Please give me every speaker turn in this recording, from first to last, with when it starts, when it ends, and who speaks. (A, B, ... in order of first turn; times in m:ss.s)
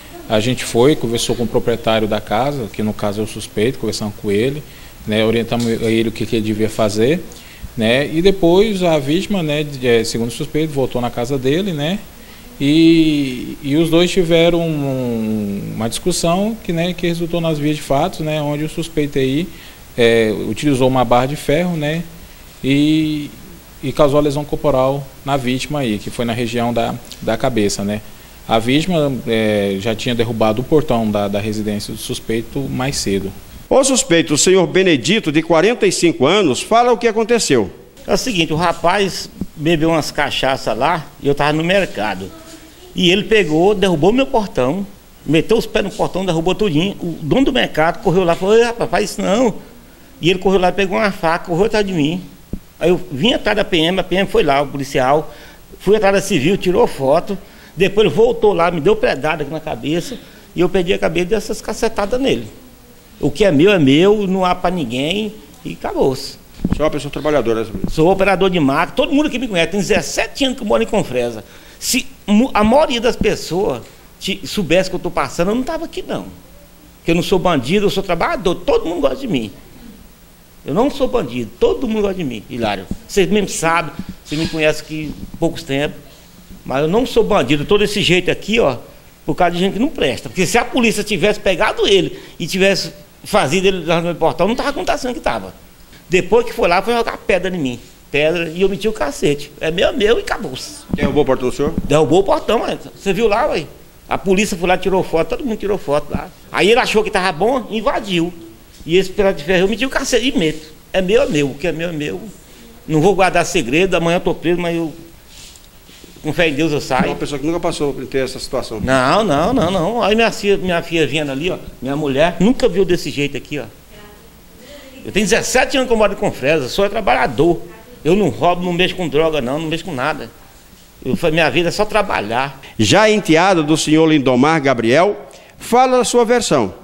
0:00.3-0:07.2 A
0:07.8-0:12.0 A
0:12.6-0:22.0 A
0:22.6-0:33.3 A
0:33.7-0:37.7 B
0:38.0-0:42.3 C
0:42.9-0:49.6 C
0:50.2-0:52.2 C
0:52.8-1:02.5 C
1:03.2-1:06.4 C
1:06.7-1:07.9 B
1:07.9-1:16.3 C
1:17.0-1:19.5 C
1:20.6-1:26.0 C
1:26.6-1:35.5 C
1:36.1-1:40.8 C
1:40.9-1:41.8 B
1:41.8-1:52.3 C
1:52.9-1:55.0 C
1:56.2-1:57.2 C
1:57.0-1:58.9 B
1:58.8-2:03.7 C
2:05.0-2:10.3 C
2:11.0-2:12.6 C
2:12.8-2:16.7 B